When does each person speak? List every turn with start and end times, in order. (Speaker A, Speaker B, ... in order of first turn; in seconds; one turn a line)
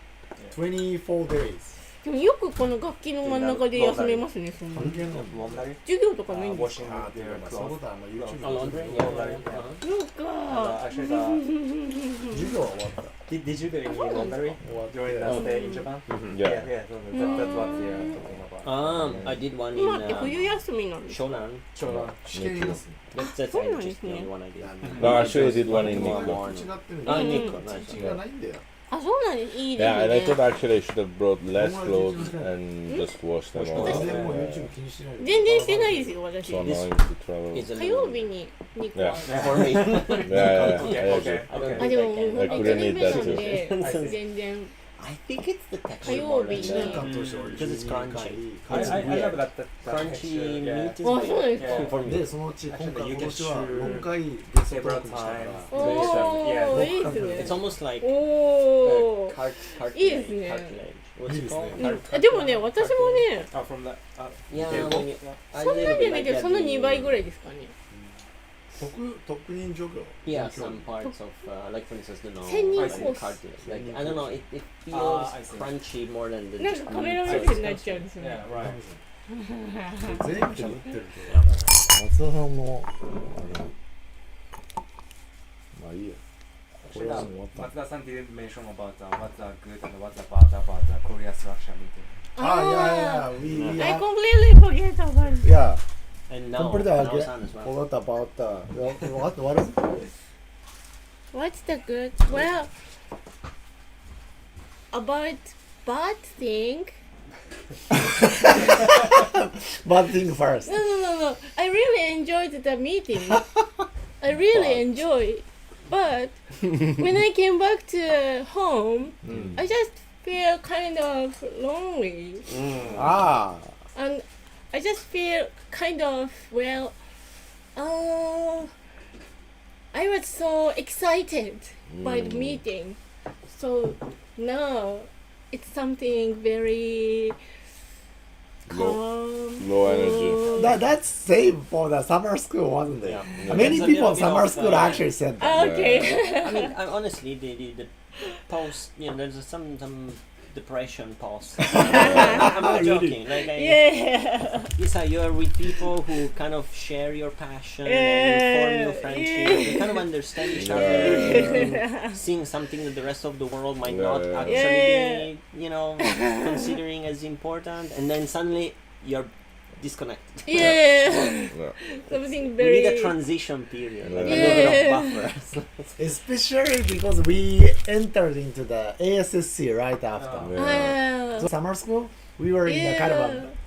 Speaker A: 0.5-1.8
Speaker B: 2.0-5.0
Speaker C: 3.2-9.8
Speaker A: 4.7-5.6
Speaker B: 5.8-6.8
Speaker A: 6.8-9.4
Speaker D: 8.4-9.7
Speaker B: 9.8-12.4
Speaker C: 10.4-11.4
Speaker A: 12.3-13.1
Speaker C: 13.3-19.4
Speaker B: 13.8-14.6
Speaker A: 14.6-15.4
Speaker B: 15.3-15.9
Speaker D: 16.1-16.4
Speaker E: 16.3-16.7
Speaker B: 17.1-18.2
Speaker D: 18.6-20.5
Speaker A: 18.9-19.4
Speaker B: 19.7-21.3
Speaker D: 21.1-21.6
Speaker C: 21.7-22.2
Speaker A: 21.9-23.0
Speaker E: 22.2-22.8
Speaker B: 23.1-24.3
Speaker D: 23.2-28.1
Speaker A: 24.6-28.6
Speaker E: 24.9-26.4
Speaker B: 27.0-27.6
Speaker E: 27.9-28.2
Speaker B: 28.9-30.5
Speaker E: 29.7-34.7
Speaker A: 31.5-32.5
Speaker B: 32.9-33.1
Speaker C: 33.6-34.3
Speaker A: 33.6-36.2
Speaker B: 35.2-36.9
Speaker E: 36.4-37.8
Speaker D: 37.5-38.2
Speaker B: 37.7-39.3
Speaker E: 38.9-39.3
Speaker C: 39.2-41.9
Speaker D: 39.3-44.0
Speaker E: 40.2-43.6
Speaker B: 41.7-44.7
Speaker C: 43.6-44.2
Speaker D: 45.0-47.0
Speaker B: 46.0-47.1
Speaker A: 46.0-49.4
Speaker C: 46.9-47.6
Speaker D: 47.6-48.4
Speaker C: 48.6-52.0
Speaker D: 49.9-52.3
Speaker B: 51.0-51.9
Speaker A: 52.0-57.7
Speaker C: 52.7-57.5
Speaker B: 55.7-60.8
Speaker D: 57.4-58.1
Speaker C: 58.8-59.2
Speaker D: 59.3-63.2
Speaker A: 61.2-61.8
Speaker B: 61.7-63.5
Speaker C: 63.5-65.4
Speaker D: 64.5-67.2
Speaker A: 64.7-65.0
Speaker B: 65.5-67.7
Speaker A: 68.7-70.9
Speaker D: 70.2-78.0
Speaker B: 72.4-73.4
Speaker C: 72.7-73.2
Speaker A: 73.6-74.4
Speaker C: 74.9-75.8
Speaker B: 76.6-78.4
Speaker C: 77.2-78.8
Speaker A: 78.4-79.0
Speaker B: 79.3-80.2
Speaker A: 80.0-83.7
Speaker A: 85.7-86.2
Speaker A: 86.8-87.7
Speaker C: 86.8-92.1
Speaker B: 92.3-95.5
Speaker A: 92.4-94.0
Speaker A: 95.4-95.8
Speaker D: 96.3-97.8
Speaker A: 96.5-100.1
Speaker B: 101.3-102.7
Speaker B: 104.9-106.9
Speaker A: 108.2-110.7
Speaker B: 110.7-113.5
Speaker B: 114.2-122.5
Speaker A: 119.2-119.5
Speaker A: 122.9-123.7
Speaker B: 123.9-127.0
Speaker B: 127.7-128.7
Speaker B: 129.9-133.0
Speaker E: 131.9-132.6
Speaker B: 133.5-137.4
Speaker E: 138.7-140.7
Speaker B: 138.7-140.8
Speaker A: 140.5-145.7
Speaker D: 143.1-145.1
Speaker E: 143.3-143.8
Speaker B: 145.4-146.8
Speaker E: 145.5-146.3
Speaker D: 146.3-147.9
Speaker B: 148.2-148.5
Speaker D: 148.5-153.8
Speaker A: 151.6-153.2
Speaker E: 151.8-152.5
Speaker B: 151.9-152.5
Speaker B: 153.3-154.7
Speaker D: 154.8-170.5
Speaker B: 157.8-162.2
Speaker E: 160.4-161.7
Speaker E: 163.8-164.8
Speaker B: 164.4-165.3
Speaker B: 166.0-166.8
Speaker B: 170.4-173.3
Speaker E: 170.5-171.7
Speaker D: 172.3-176.0
Speaker E: 174.0-174.8
Speaker B: 174.2-175.3
Speaker A: 176.0-183.5
Speaker C: 180.2-180.5
Speaker E: 180.4-181.0
Speaker B: 180.6-181.5
Speaker B: 182.6-183.5